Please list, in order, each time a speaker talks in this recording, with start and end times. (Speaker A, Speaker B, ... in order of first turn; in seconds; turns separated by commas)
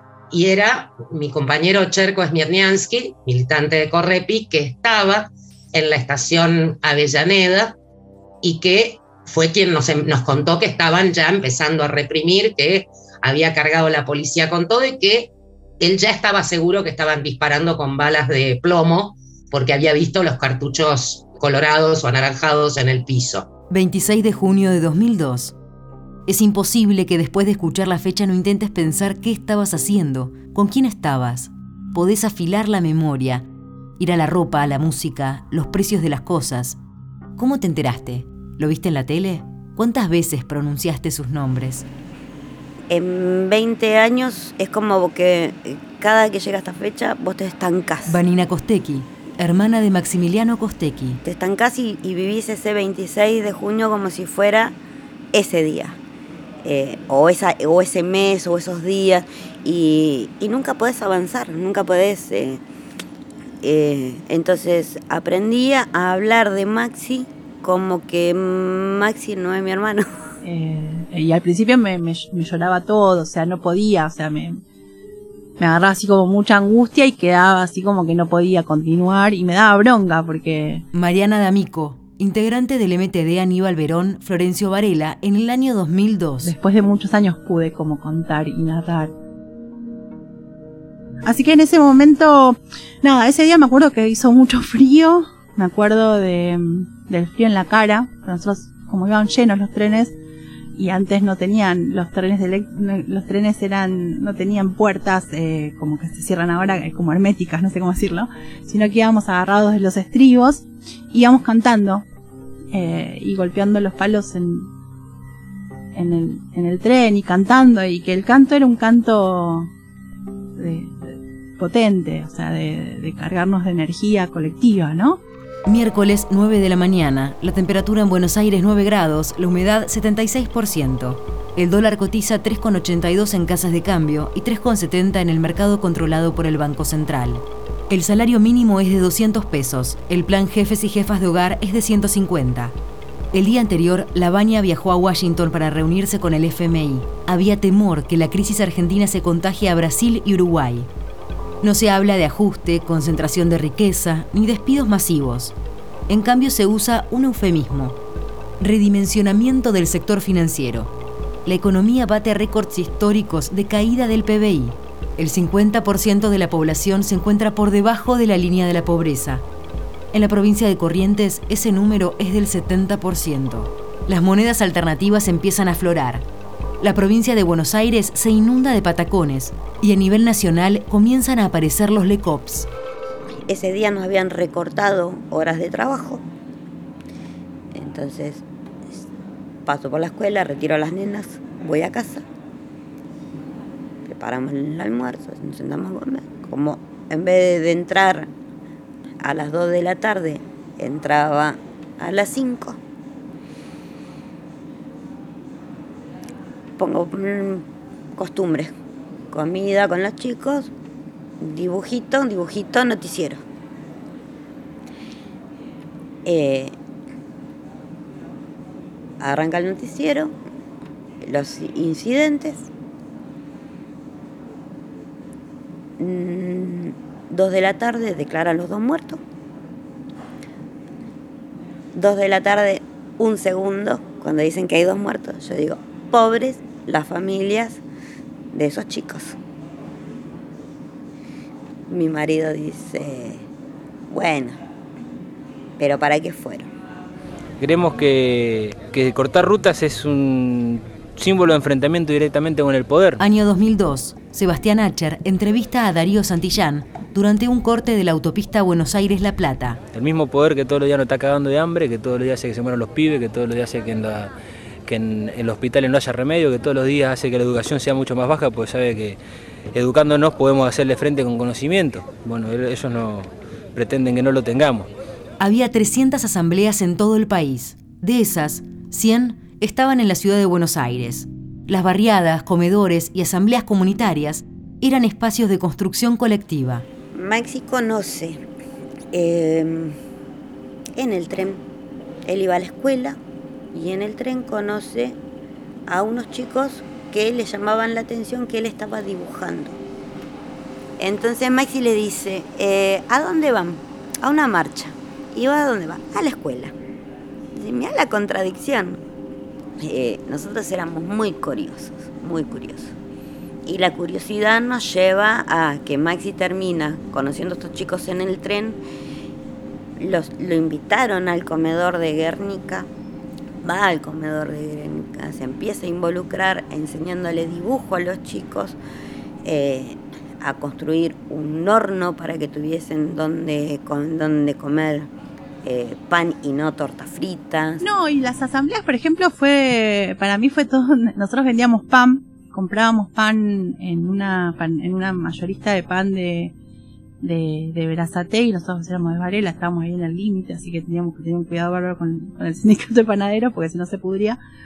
Speaker A: 0.3-7.8, Speaker A: 8.4-23.5, Speaker B: 23.7-25.5, Speaker B: 26.3-33.5, Speaker B: 34.0-36.8, Speaker B: 37.4-41.9, Speaker C: 42.9-48.1, Speaker B: 48.0-51.2, Speaker C: 51.2-54.8, Speaker C: 55.3-56.0, Speaker C: 56.6-62.6, Speaker C: 63.6-70.1, Speaker D: 70.4-74.6, Speaker D: 75.6-80.8, Speaker B: 80.9-86.5, Speaker D: 86.4-89.1, Speaker D: 91.2-100.1, Speaker D: 100.8-112.0, Speaker D: 112.7-114.7, Speaker D: 115.9-119.7, Speaker D: 120.6-125.2, Speaker B: 125.7-142.7, Speaker B: 143.3-150.9, Speaker B: 151.6-155.5, Speaker B: 156.1-158.0, Speaker B: 158.6-160.9, Speaker B: 161.4-169.4, Speaker B: 170.1-176.2, Speaker B: 176.8-182.7, Speaker C: 183.5-186.2, Speaker C: 187.7-189.0, Speaker C: 189.7-192.2, Speaker C: 194.1-198.3, Speaker C: 199.2-202.8, Speaker C: 206.8-207.6, Speaker C: 208.2-208.7, Speaker C: 209.3-210.7, Speaker C: 211.4-213.4, Speaker C: 216.2-216.7, Speaker C: 219.2-220.3, Speaker C: 221.2-222.7, Speaker C: 226.0-229.2, Speaker C: 231.9-237.8, Speaker C: 238.5-239.4, Speaker C: 241.9-243.4, Speaker C: 244.1-244.6, Speaker C: 245.8-246.7, Speaker E: 247.6-253.2, Speaker B: 253.2-259.8, Speaker E: 259.9-264.3, Speaker E: 264.9-269.2, Speaker E: 269.7-274.9, Speaker B: 275.4-286.8, Speaker C: 287.1-288.4, Speaker C: 289.1-289.9, Speaker C: 290.9-291.6, Speaker C: 292.2-293.2, Speaker C: 293.7-295.2, Speaker C: 295.9-299.8, Speaker C: 301.0-306.7, Speaker C: 307.5-309.0, Speaker C: 309.8-312.9, Speaker C: 313.6-318.8, Speaker C: 320.0-322.9, Speaker C: 323.6-328.8, Speaker C: 329.4-335.1, Speaker C: 335.6-337.8, Speaker D: 337.8-346.5, Speaker D: 347.2-354.4